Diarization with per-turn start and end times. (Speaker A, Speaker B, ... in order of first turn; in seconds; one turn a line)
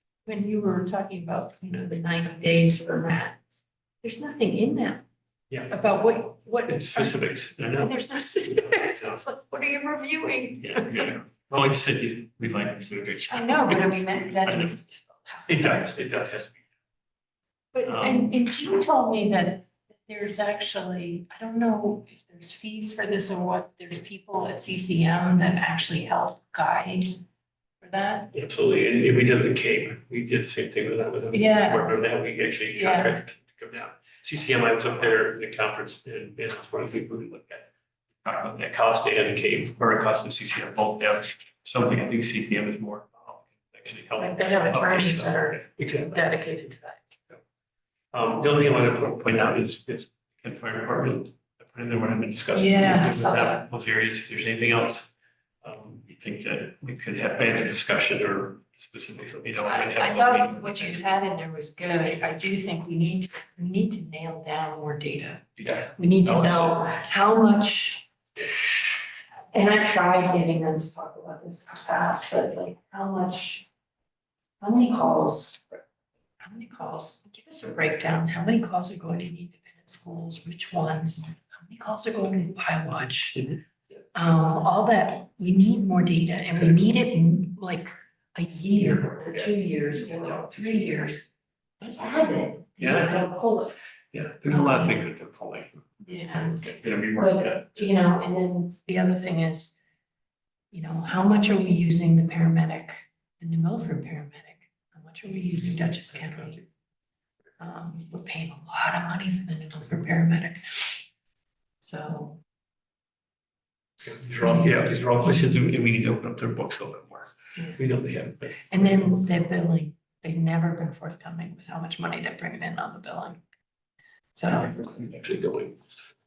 Speaker A: 0.2-3.4
Speaker A: 4.0-5.0
Speaker B: 5.5-5.8
Speaker A: 5.7-11.1
Speaker B: 6.6-8.0
Speaker B: 8.5-9.2
Speaker B: 10.6-14.8
Speaker A: 13.3-15.8
Speaker B: 15.5-16.6
Speaker A: 17.7-27.2
Speaker B: 17.8-18.3
Speaker A: 27.8-28.3
Speaker B: 28.3-37.7
Speaker A: 31.3-32.0
Speaker A: 32.8-33.2
Speaker B: 38.2-46.3
Speaker A: 44.2-47.1
Speaker B: 48.1-55.1
Speaker A: 52.5-53.6
Speaker B: 55.6-61.1
Speaker A: 59.6-65.4
Speaker B: 65.6-66.9
Speaker A: 66.0-68.0
Speaker A: 69.5-73.7
Speaker A: 74.6-75.6
Speaker A: 76.4-83.4
Speaker B: 83.3-83.6
Speaker A: 84.1-91.2
Speaker B: 88.8-89.5
Speaker B: 90.1-90.5
Speaker A: 91.8-93.7
Speaker B: 92.8-93.2
Speaker B: 94.1-97.9
Speaker A: 94.4-95.0
Speaker A: 96.0-99.8
Speaker A: 100.7-106.6
Speaker A: 107.6-111.0
Speaker A: 111.8-112.4
Speaker B: 114.0-119.2
Speaker A: 114.4-114.7
Speaker A: 118.7-123.4
Speaker A: 124.3-124.7
Speaker B: 124.5-125.8